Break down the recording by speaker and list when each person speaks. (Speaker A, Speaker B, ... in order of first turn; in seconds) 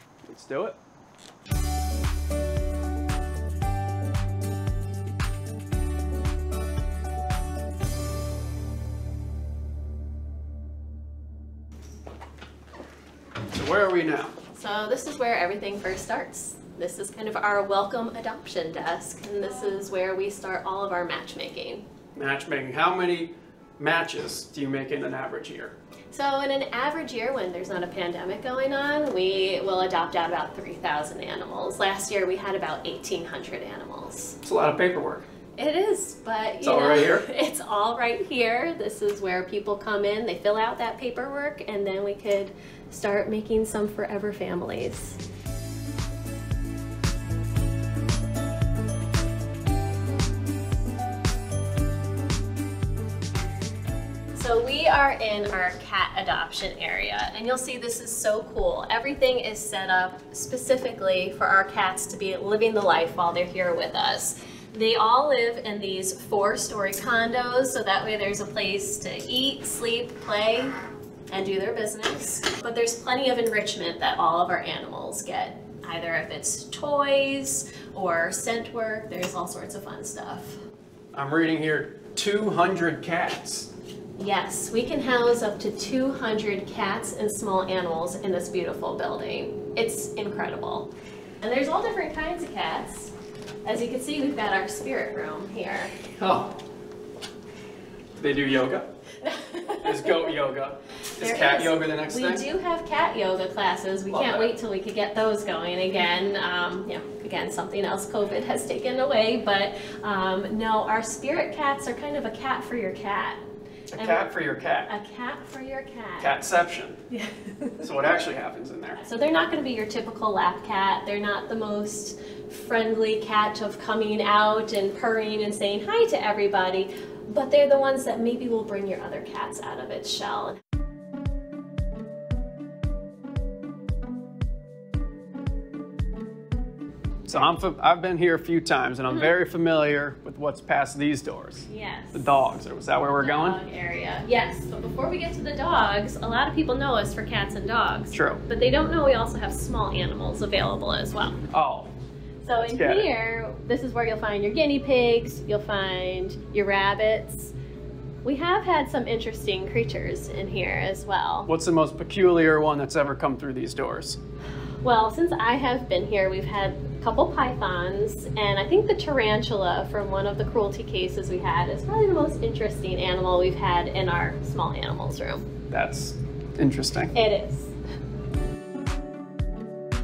Speaker A: 0.2-0.8, 13.5-14.3, 22.1-25.7, 34.4-35.2, 36.6-37.3, 81.1-83.7, 96.2-96.5, 98.2-98.9, 99.8-102.4, 104.1-104.5, 113.9-114.9, 116.2-117.0, 117.8-119.0, 137.3-143.6, 148.1-148.4, 151.5-151.9, 152.6-153.1, 161.5-164.2, 175.7-177.1
Speaker B: 14.5-21.9, 26.1-34.4, 35.6-45.2, 54.3-70.8, 71.3-80.6, 84.2-90.9, 91.4-93.1, 93.7-95.9, 99.2-100.3, 101.2-113.4, 113.9-114.3, 114.9-116.3, 117.1-117.9, 119.0-130.6, 141.7-142.5, 143.2-151.4, 152.4-157.5, 158.2-161.5, 164.8-175.5, 177.1-177.7